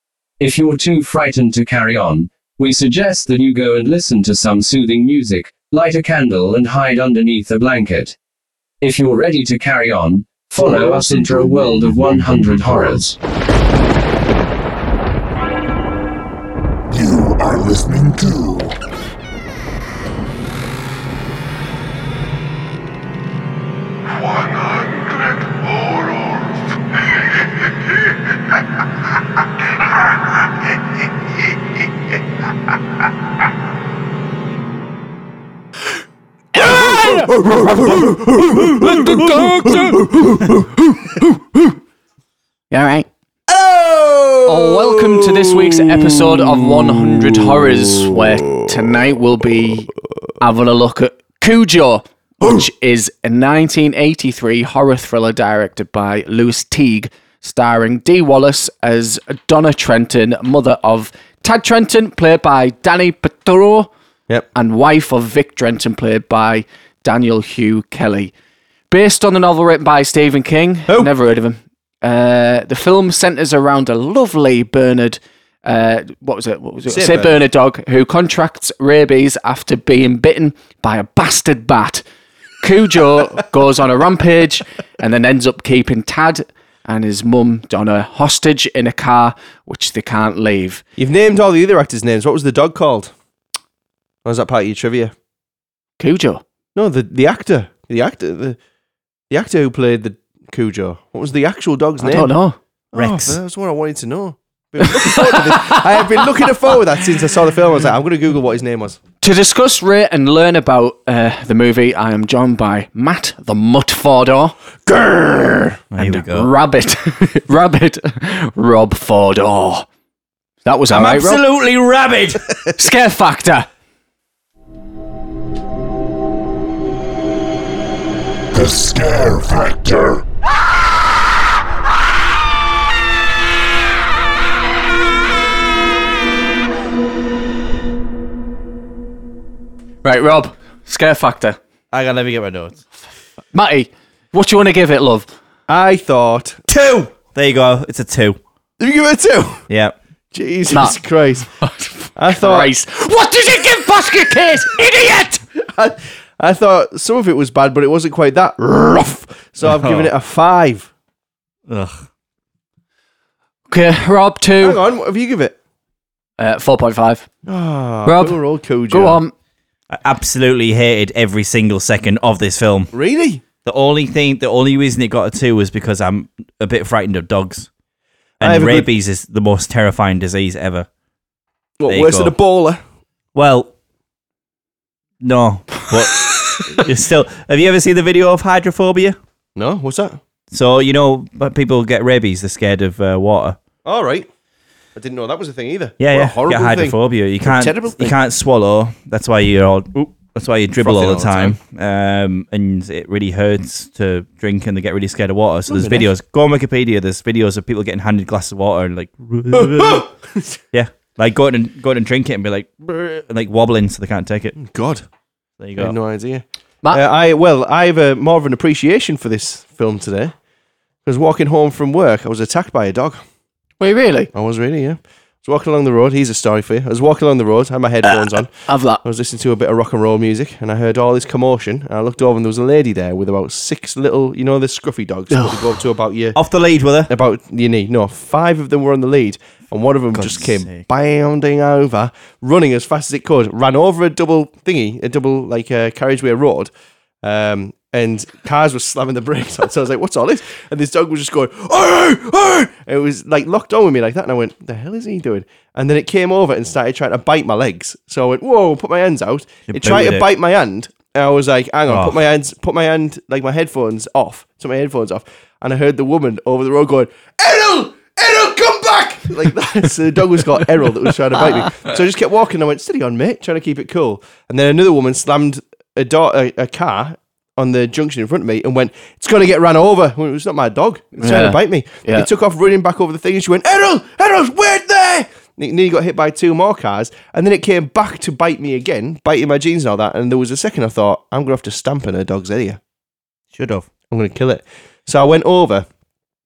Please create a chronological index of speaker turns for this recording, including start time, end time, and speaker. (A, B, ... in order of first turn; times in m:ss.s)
0:00.4-0:08.2 A
0:08.8-0:13.2 A
0:16.9-0:18.7 B
0:36.6-0:37.2 C
0:37.1-0:40.8 D
0:38.5-0:40.1 C
0:42.7-0:43.1 C
0:43.5-0:46.4 D
0:44.5-1:03.9 C
1:04.5-1:08.3 C
1:08.9-1:22.0 C
1:16.9-1:17.4 D
1:22.6-1:30.8 C
1:31.0-1:33.1 D
1:34.2-1:35.1 D
1:36.0-1:36.4 C
1:36.8-1:38.6 D
1:39.3-1:42.3 D
1:42.0-1:42.6 C
1:42.9-1:49.0 D
1:43.0-1:43.4 E
1:49.2-1:54.6 C
1:54.9-1:55.5 D
1:55.9-1:56.5 E
1:55.9-1:59.9 C
2:00.6-2:01.4 C
2:00.9-2:01.4 D
2:01.3-2:02.4 E
2:02.8-2:03.7 C
2:08.5-2:10.2 B
2:20.0-2:21.6 C
2:21.9-2:22.8 D
2:23.5-2:25.3 C
2:25.7-2:27.1 D
2:27.3-2:28.4 E
2:28.8-2:29.6 D
2:29.7-2:30.0 E
2:30.3-2:31.5 D
2:30.7-2:31.0 C
2:31.6-2:35.4 C
2:32.2-2:32.7 D
2:35.8-2:40.9 D
2:39.6-2:40.1 E
2:41.7-2:42.0 E
2:43.7-2:44.8 C
2:44.6-2:45.6 D
2:46.4-2:47.3 C
2:47.5-2:49.2 D
2:48.0-2:49.3 C
2:49.9-2:52.9 E
2:52.9-2:53.4 D
2:53.6-2:57.7 E
2:58.4-3:00.9 E
2:58.4-2:58.9 D
3:01.8-3:02.8 D
3:01.9-3:02.4 E
3:03.4-3:03.7 E
3:05.2-3:09.2 E
3:09.6-3:10.2 D
3:10.5-3:13.6 E
3:13.8-3:14.3 D
3:15.0-3:18.2 D
3:16.0-3:30.1 E
3:20.8-3:21.6 D
3:25.7-3:26.1 D
3:29.5-3:30.5 D
3:30.7-3:34.6 E
3:34.6-3:35.0 D
3:35.6-3:36.0 E
3:35.8-3:40.3 D
3:41.0-3:43.2 D
3:43.8-3:44.3 C
3:44.3-3:56.4 D
3:48.1-3:49.0 C
3:56.4-3:57.1 E
3:57.1-4:06.7 D
4:00.1-4:00.9 E
4:07.2-4:52.8 D
4:19.7-4:20.3 E
4:21.9-4:22.2 E
4:41.2-4:42.3 C
4:53.5-4:53.9 E
4:54.1-4:55.8 D